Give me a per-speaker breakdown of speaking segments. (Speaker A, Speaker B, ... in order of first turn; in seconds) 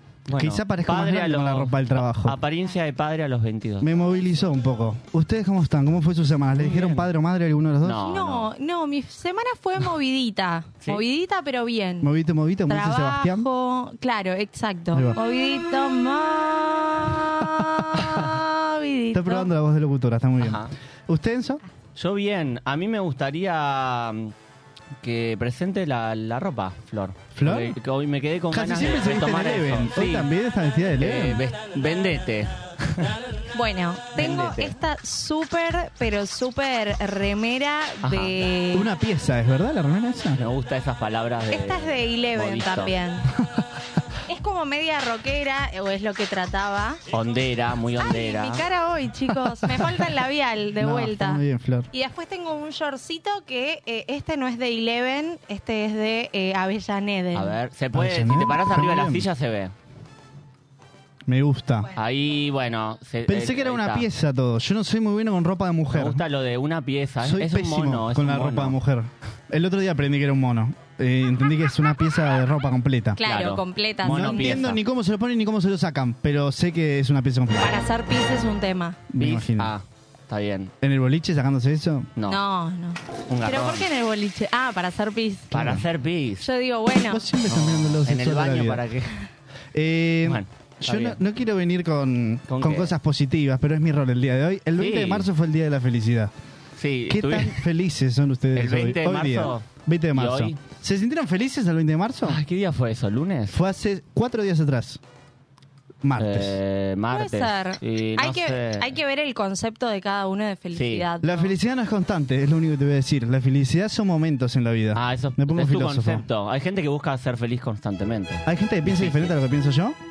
Speaker A: 0.3-3.9, 6.5-7.1, 7.8-8.5, 20.4-20.7, 21.9-24.3, 25.0-30.3, 31.0-33.1, 34.1-34.8, 38.0-38.5, 40.4-42.9, 47.1-48.6, 57.3-59.7, 62.0-64.0, 65.9-68.8, 73.2-74.8, 79.2-80.7, 83.3-83.9, 85.5-86.5, 87.5-89.1, 90.2-91.2, 92.5-92.9, 94.8-95.3, 96.8-97.6, 98.5-100.5, 102.2-103.6, 106.2-108.9, 110.7-111.0, 114.9-119.3
Speaker B: 0.3-2.4, 3.8-8.0, 12.0-13.4, 14.9-15.2, 18.0-18.2, 19.1-21.6, 27.4-27.8, 28.5-31.4, 38.7-40.4, 49.3-50.0, 50.8-51.9, 57.9-59.2, 61.2-61.9, 63.3-66.2, 67.2-73.2, 74.0-77.8, 79.1-79.7, 80.8-82.1, 85.5-85.8, 87.1-88.8, 89.7-96.3, 97.1-102.4, 103.5-105.0, 106.0-106.6, 111.2-116.2, 118.5-120.0
Speaker C: 8.0-12.1, 12.7-19.5, 33.5-38.9, 41.5-43.3, 44.3-47.0, 48.0-51.4, 51.9-57.5, 73.2-74.7, 77.5-79.0, 82.3-85.5, 86.4-87.2, 107.1-111.5